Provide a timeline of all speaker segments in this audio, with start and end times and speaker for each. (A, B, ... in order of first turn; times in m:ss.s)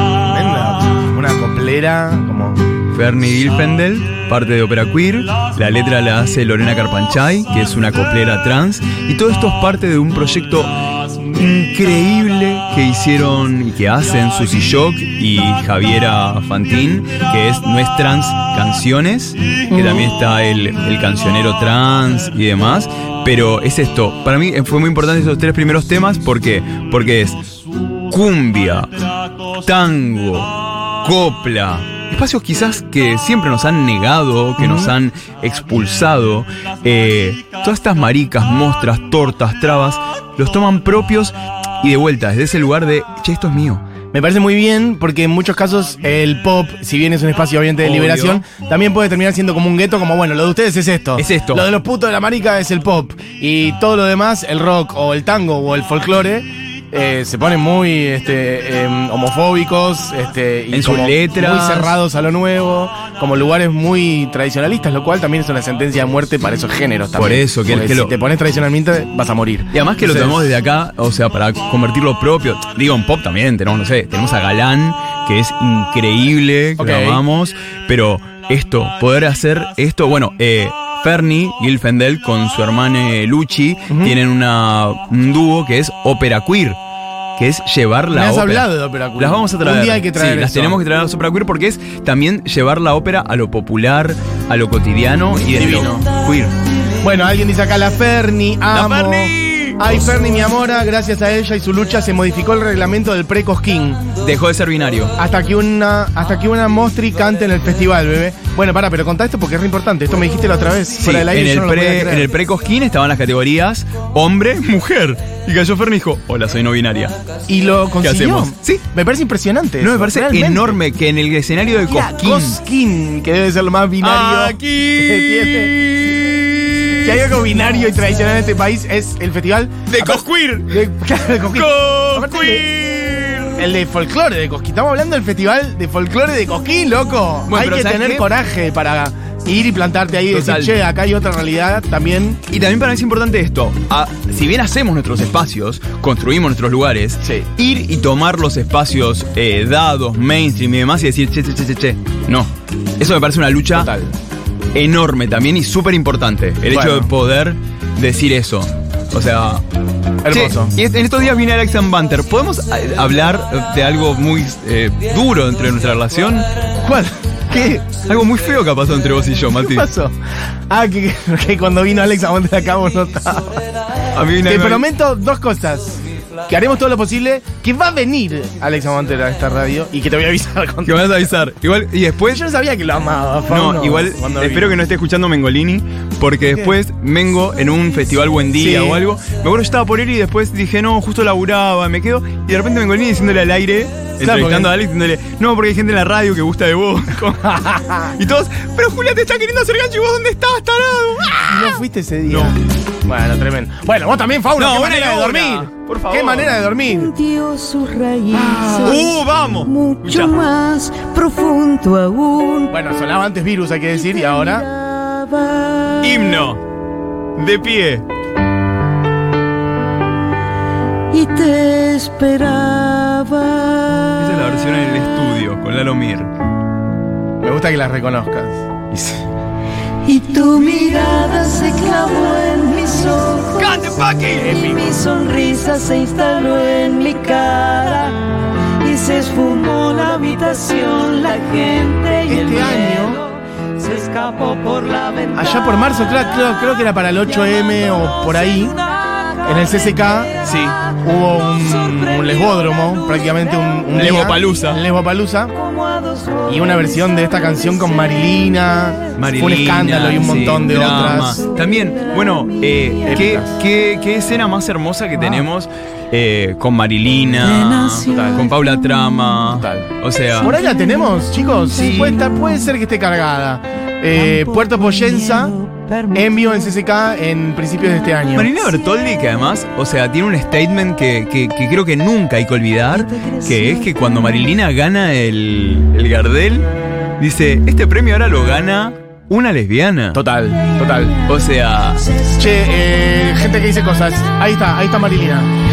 0:00.1-0:02.8 A
0:02.9-0:43.8 B
0:19.7-0:20.1 A
0:34.6-0:34.9 A
0:44.1-1:10.5 A
0:47.8-0:48.4 B
0:51.2-0:51.7 B
1:00.7-1:02.0 B
1:07.2-1:08.1 B
1:09.7-1:26.8 B
1:16.8-1:17.2 A
1:23.9-1:24.2 A
1:27.4-1:36.5 B
1:28.1-1:30.8 A
1:35.5-1:36.1 A
1:37.0-1:44.1 A
1:38.7-1:40.0 B
1:44.2-1:45.2 B
1:45.2-1:52.3 A
1:51.0-1:57.2 B
1:57.5-2:00.8 A
1:58.0-1:58.8 B
1:59.8-2:02.6 B
2:01.9-2:05.8 A
2:04.0-2:07.3 B
2:07.0-2:12.7 A
2:09.9-2:10.8 B
2:11.5-2:13.6 B
2:13.6-2:22.4 A
2:17.5-2:18.3 B
2:20.3-2:20.8 B
2:22.5-2:33.9 B
2:27.2-2:27.5 A
2:33.7-2:34.1 A
2:34.7-2:39.6 B
2:36.7-2:37.1 A
2:40.2-2:40.8 A
2:40.3-2:46.5 B
2:46.8-2:47.9 A
2:47.9-2:49.9 B
2:49.6-2:50.2 A
2:50.7-2:53.7 A
2:54.1-2:54.9 B
2:54.4-3:01.3 A
3:00.8-3:02.4 B
3:02.3-3:04.8 A
3:03.5-3:17.5 B
3:06.4-3:06.8 A
3:08.6-3:09.0 A
3:14.2-3:14.7 A
3:17.2-3:18.2 A
3:18.1-3:22.6 B
3:21.4-3:27.1 A
3:24.6-3:26.6 B
3:26.8-3:29.1 C
3:28.3-3:29.1 A
3:28.8-3:30.4 B
3:29.6-3:32.8 C
3:32.7-3:34.7 A
3:34.0-3:36.3 C
3:36.0-3:36.6 B
3:37.4-3:38.1 B
3:41.1-3:44.3 C
3:44.2-3:46.3 B
3:47.4-3:48.7 A
3:48.9-3:49.2 B
3:50.0-3:58.2 C
3:53.6-3:54.6 B
3:54.4-3:55.0 A
3:58.8-4:05.7 C
4:02.3-4:03.2 A
4:05.4-4:08.8 A
4:09.4-4:10.4 A
4:10.4-4:10.8 B
4:11.0-4:15.5 A
4:13.9-4:14.8 B
4:15.7-4:17.6 C
4:16.5-4:21.4 A
4:19.2-4:30.6 B
4:21.2-4:23.3 C
4:23.1-4:23.6 A
4:27.4-4:29.2 C
4:28.1-4:28.4 A
4:29.5-4:29.9 A
4:30.4-4:35.5 A
4:30.5-4:32.7 C
4:34.1-4:36.7 C
4:36.1-4:38.5 A
4:38.3-4:50.2 B
4:43.0-4:44.4 C
4:50.1-4:51.2 A
4:51.2-4:52.1 B
4:52.4-4:55.5 A